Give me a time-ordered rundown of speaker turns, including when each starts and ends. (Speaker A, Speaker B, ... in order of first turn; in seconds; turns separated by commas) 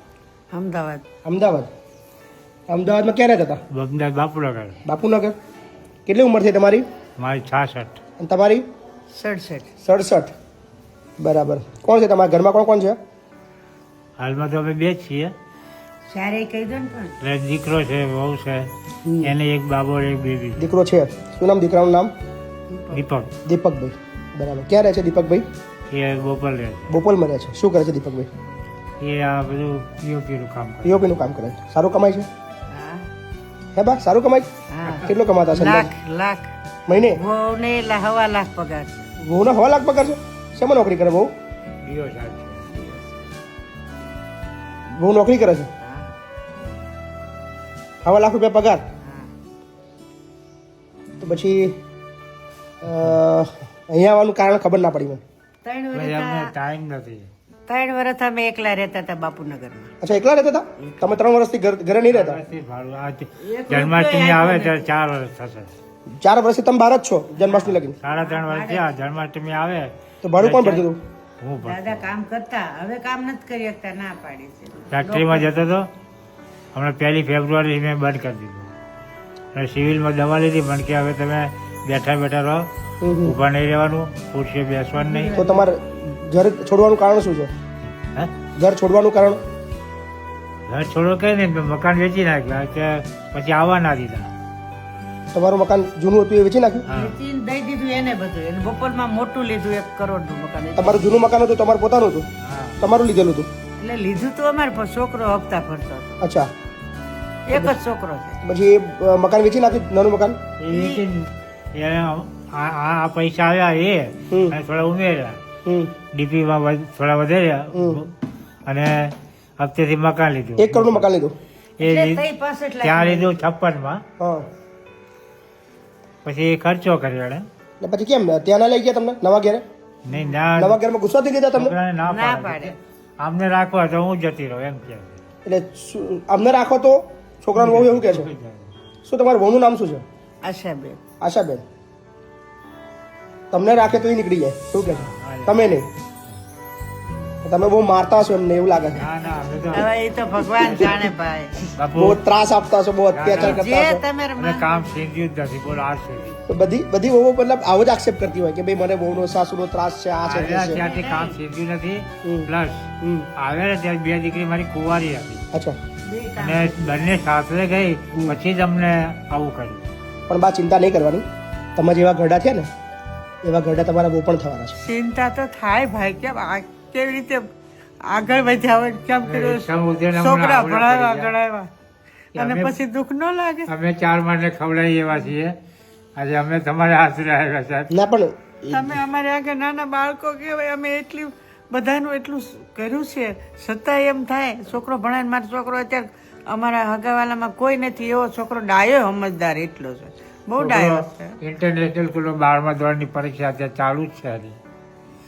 Speaker A: 0.5-1.1, Speaker B: 1.2-1.7, Speaker B: 2.7-3.6, Speaker C: 3.7-4.8, Speaker B: 4.9-5.3, Speaker B: 6.1-6.8, Speaker C: 7.2-8.0, Speaker B: 8.2-8.6, Speaker A: 9.1-9.7, Speaker B: 9.8-10.3, Speaker B: 11.2-13.0, Speaker C: 14.2-15.3, Speaker A: 16.1-17.2, Speaker C: 17.2-18.7, Speaker B: 19.1-19.3, Speaker C: 19.2-20.7, Speaker B: 20.6-22.1, Speaker A: 22.7-23.0, Speaker C: 22.9-23.4, Speaker B: 23.5-25.5, Speaker C: 25.9-27.0, Speaker B: 26.9-28.3, Speaker C: 29.0-31.1, Speaker B: 30.8-32.3, Speaker A: 32.7-33.1, Speaker B: 33.8-35.9, Speaker A: 34.7-36.5, Speaker C: 34.8-35.1, Speaker B: 36.9-37.2, Speaker A: 37.1-39.1, Speaker B: 39.2-41.3, Speaker C: 41.8-42.8, Speaker B: 44.9-45.7, Speaker A: 45.8-46.1, Speaker B: 48.0-48.8, Speaker A: 49.0-49.3, Speaker B: 51.2-51.8, Speaker B: 52.8-55.2, Speaker A: 55.6-56.5, Speaker C: 55.9-57.3, Speaker A: 57.7-59.9, Speaker B: 60.0-62.4, Speaker A: 60.8-61.2, Speaker C: 62.1-65.7, Speaker A: 63.4-65.0, Speaker B: 66.2-68.0, Speaker A: 67.3-69.0, Speaker C: 67.6-70.9, Speaker B: 70.2-71.0, Speaker C: 71.4-72.1, Speaker A: 71.6-75.6, Speaker C: 74.9-75.9, Speaker C: 76.7-78.7, Speaker C: 79.5-82.7, Speaker B: 83.0-83.4, Speaker C: 83.2-85.4, Speaker A: 84.9-85.7, Speaker B: 85.4-87.5, Speaker C: 88.0-88.3, Speaker B: 88.6-89.4, Speaker C: 90.7-94.3, Speaker B: 95.3-96.8, Speaker C: 96.9-97.2, Speaker A: 96.9-101.2, Speaker B: 100.8-102.3, Speaker C: 102.4-102.8, Speaker B: 102.8-103.5, Speaker A: 103.8-106.2, Speaker B: 106.2-106.5, Speaker A: 107.5-108.4, Speaker B: 108.4-110.4, Speaker C: 110.6-115.4, Speaker A: 110.7-111.0, Speaker B: 114.3-114.6, Speaker B: 115.7-115.9, Speaker C: 116.2-118.1, Speaker B: 117.7-118.0, Speaker C: 118.7-121.1, Speaker B: 120.6-121.3, Speaker C: 121.8-122.3, Speaker A: 121.8-123.4, Speaker C: 122.8-124.0, Speaker B: 124.2-124.5, Speaker C: 126.2-127.5, Speaker B: 127.8-129.6, Speaker C: 130.1-130.8, Speaker A: 130.1-130.4, Speaker B: 130.6-131.7, Speaker C: 131.5-135.2, Speaker A: 132.1-132.8, Speaker B: 135.5-138.3, Speaker C: 137.6-138.7, Speaker B: 139.1-140.0, Speaker A: 140.4-141.0, Speaker B: 141.2-141.6, Speaker B: 143.5-145.9, Speaker C: 144.8-145.8, Speaker B: 147.4-149.1, Speaker C: 149.0-149.9, Speaker A: 149.7-151.7, Speaker B: 150.4-151.1, Speaker C: 151.8-152.2, Speaker B: 151.9-154.0, Speaker C: 153.1-153.7, Speaker A: 153.3-155.1, Speaker C: 154.4-156.4, Speaker B: 156.5-160.8, Speaker C: 160.2-165.4, Speaker A: 160.7-161.4, Speaker B: 163.0-163.3, Speaker A: 166.0-167.2, Speaker C: 166.4-169.9, Speaker B: 170.3-171.2, Speaker B: 171.8-172.7, Speaker B: 173.4-174.8, Speaker A: 174.8-177.4, Speaker A: 178.0-181.7, Speaker C: 179.2-181.4, Speaker A: 182.3-183.7, Speaker C: 182.3-182.8, Speaker C: 183.7-185.5, Speaker C: 186.2-187.9, Speaker B: 187.9-189.0, Speaker A: 188.7-201.4, Speaker C: 200.6-204.6